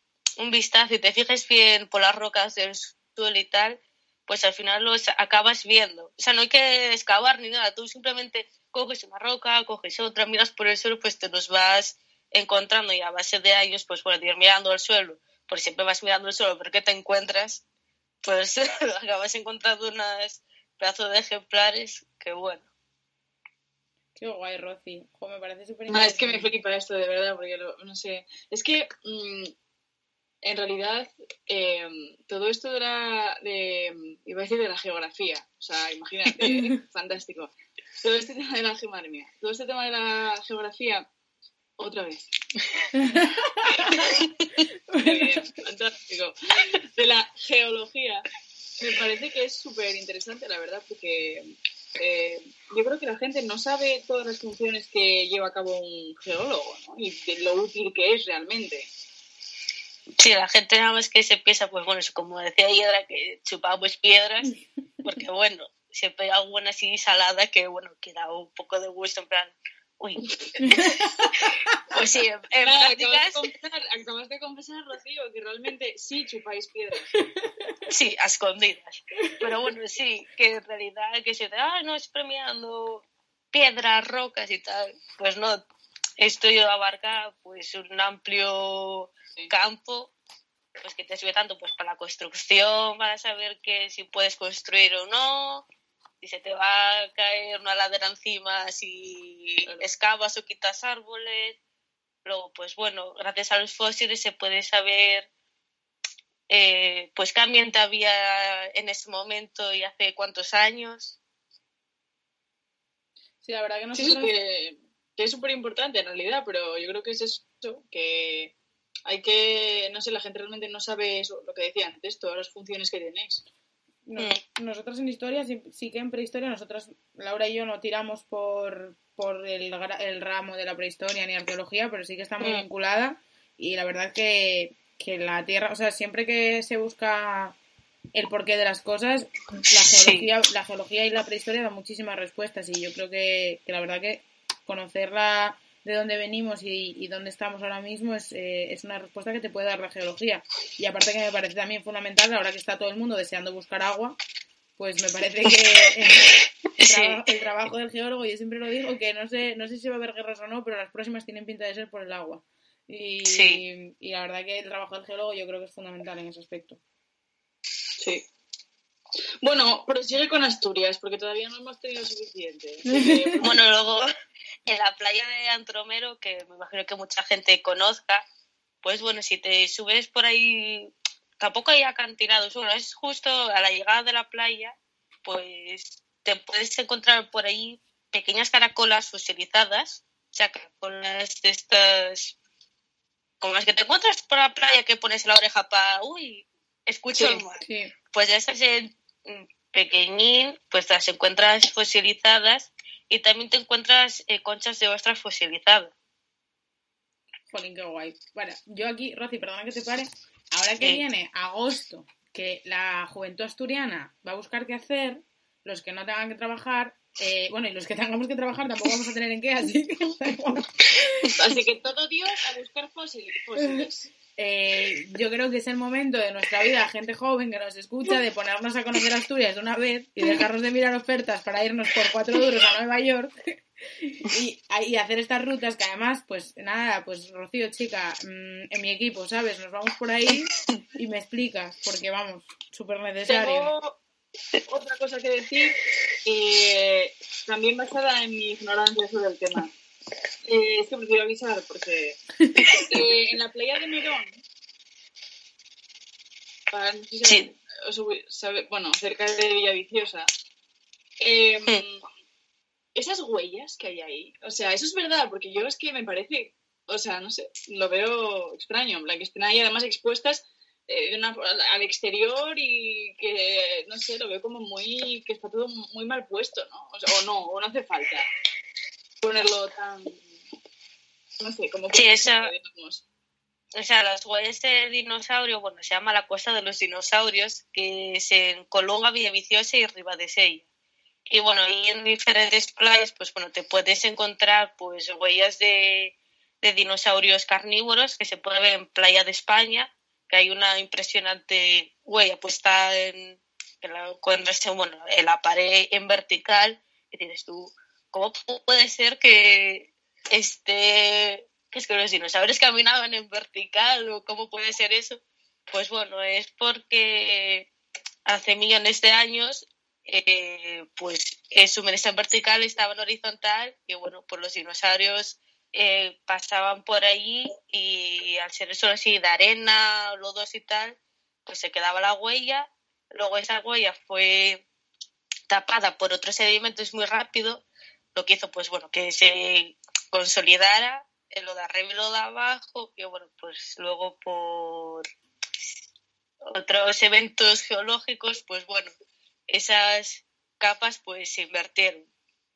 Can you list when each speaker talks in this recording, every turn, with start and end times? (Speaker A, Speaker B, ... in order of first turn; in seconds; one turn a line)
Speaker A: 0.4-17.6
Speaker A: 18.2-22.7
Speaker B: 24.2-26.5
Speaker C: 25.9-29.5
Speaker C: 30.4-41.1
Speaker C: 41.8-42.3
Speaker B: 43.0-44.0
Speaker B: 44.9-45.3
Speaker C: 45.0-48.3
Speaker C: 48.8-58.9
Speaker A: 60.2-70.9
Speaker B: 70.6-71.5
Speaker A: 71.9-73.4
Speaker C: 72.6-77.1
Speaker A: 77.9-85.6
Speaker A: 86.2-90.1
Speaker A: 90.8-95.7
Speaker A: 96.2-101.6
Speaker A: 102.2-105.3
Speaker A: 106.5-111.2
Speaker B: 113.4-114.3
Speaker C: 114.0-118.5
Speaker C: 119.1-123.4
Speaker B: 124.1-137.6
Speaker A: 132.4-132.7
Speaker B: 138.2-154.2
Speaker A: 139.8-140.3
Speaker B: 154.8-156.3
Speaker A: 156.8-157.2
Speaker B: 156.8-166.8
Speaker A: 163.3-163.6
Speaker C: 168.0-168.3
Speaker C: 169.4-173.5
Speaker B: 172.9-173.2
Speaker A: 173.4-174.1
Speaker A: 174.7-178.3
Speaker A: 178.8-192.3
Speaker A: 193.4-205.9
Speaker C: 197.1-197.4
Speaker B: 197.6-197.9
Speaker B: 207.5-221.3
Speaker C: 221.3-224.1
Speaker B: 223.6-233.3
Speaker B: 234.0-243.7
Speaker C: 243.3-244.0
Speaker C: 244.7-249.7
Speaker C: 250.4-252.2
Speaker C: 252.9-254.4
Speaker C: 256.7-260.3
Speaker C: 261.2-262.0
Speaker C: 262.9-278.3
Speaker C: 279.2-280.2
Speaker C: 281.4-283.1
Speaker A: 281.9-282.5
Speaker A: 283.8-290.7
Speaker A: 291.3-317.7
Speaker A: 318.3-334.6
Speaker A: 335.5-337.6
Speaker A: 338.1-345.1
Speaker A: 346.5-348.9
Speaker A: 349.5-352.1